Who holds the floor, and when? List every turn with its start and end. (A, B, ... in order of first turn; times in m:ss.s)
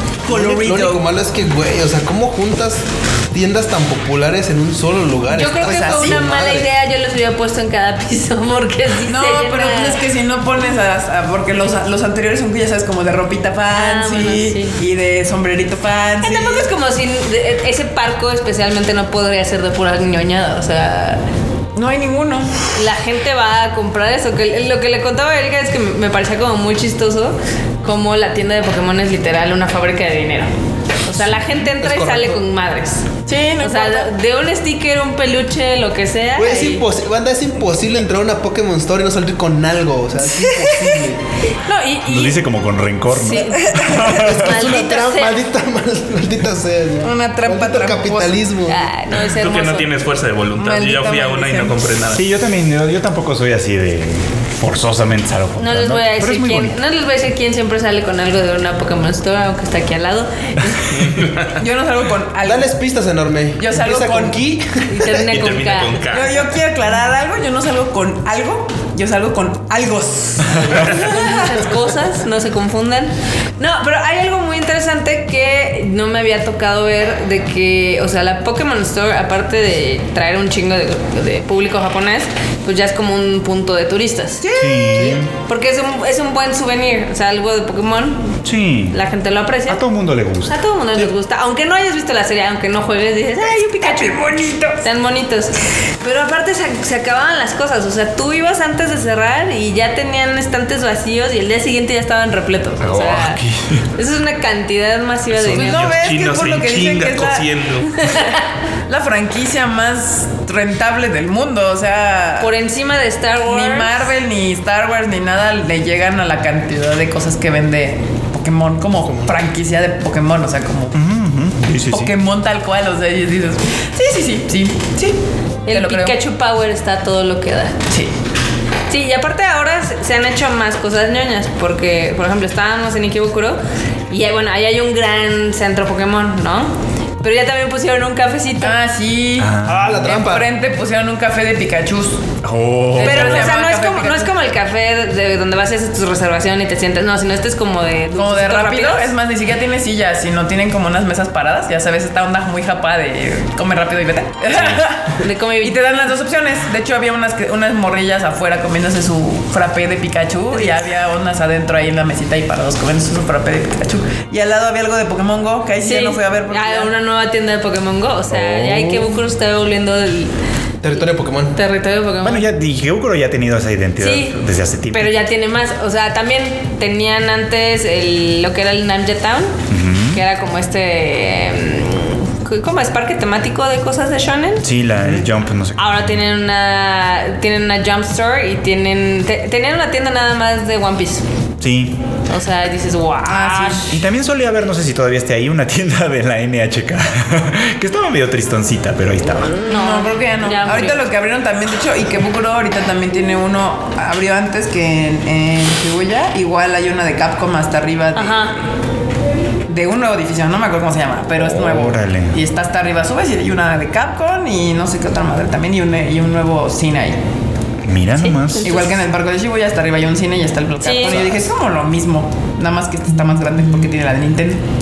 0:00.2-0:01.0 A
0:00.3-0:06.7 B
0:05.3-0:10.0 C
0:05.6-0:06.2 A
0:09.1-0:16.7 A
0:13.7-0:14.8 C
0:16.2-0:21.2 C
0:21.8-0:22.7 A
0:22.7-0:30.5 C
0:31.0-0:33.1 C
0:31.2-0:32.4 B
0:33.3-0:34.1 A
0:33.6-0:36.8 C
0:36.4-0:41.2 B
0:40.2-0:41.1 A
0:41.6-0:42.4 C
0:42.0-0:44.4 D
0:43.2-0:45.4 C
0:43.6-0:44.1 A
0:44.1-0:48.8 B
0:47.0-0:48.5 A
0:48.7-0:49.9 C
0:49.2-0:52.2 E
0:50.6-0:51.8 A
0:52.1-0:56.8 D
0:55.6-1:01.0 C
1:00.9-1:01.6 E
1:01.6-1:02.7 A
1:02.4-1:05.3 B
1:03.6-1:04.4 A
1:04.9-1:06.0 C
1:05.3-1:06.5 E
1:06.1-1:11.6 A
1:10.5-1:10.8 D
1:10.8-1:28.4 C
1:24.4-1:25.2 A
1:24.5-1:25.3 D
1:28.4-1:29.0 D
1:28.9-1:29.8 C
1:29.7-1:30.6 D
1:30.5-1:34.3 C
1:33.6-1:34.8 A
1:34.8-1:43.4 C
1:42.8-1:43.8 D
1:44.0-1:46.0 C
1:45.4-1:48.0 E
1:45.5-1:47.5 A
1:48.0-1:48.4 C
1:48.9-1:52.5 A
1:52.4-1:54.1 C
1:53.5-2:01.0 A
1:59.0-1:59.3 B
2:00.9-2:02.1 D
2:01.9-2:06.2 A
2:05.7-2:07.8 C
2:08.9-2:13.6 C
2:14.1-2:18.8 C
2:18.6-2:22.2 A
2:19.4-2:20.0 D
2:19.6-2:20.5 B
2:22.4-2:23.5 D
2:23.0-2:24.3 A
2:23.0-2:29.1 C
2:28.1-2:46.9 A
2:35.2-2:35.8 C
2:45.8-2:50.3 C
2:48.3-2:49.1 D
2:50.8-2:51.6 B
2:51.6-2:52.5 C
2:52.2-2:55.2 D
2:54.0-2:54.4 C
2:54.9-2:59.6 C
2:59.7-3:00.2 D
3:00.1-3:04.7 C
3:04.6-3:06.0 D
3:05.8-3:11.2 C
3:11.6-3:12.0 D
3:12.3-3:13.9 C
3:13.3-3:14.0 A
3:13.9-3:19.6 D
3:19.7-3:21.0 C
3:19.7-3:28.5 A
3:28.2-3:28.6 C
3:29.7-3:37.2 A
3:31.4-3:32.4 D
3:37.8-3:38.7 D
3:38.2-3:38.9 C
3:38.6-3:44.6 A
3:40.8-3:41.2 C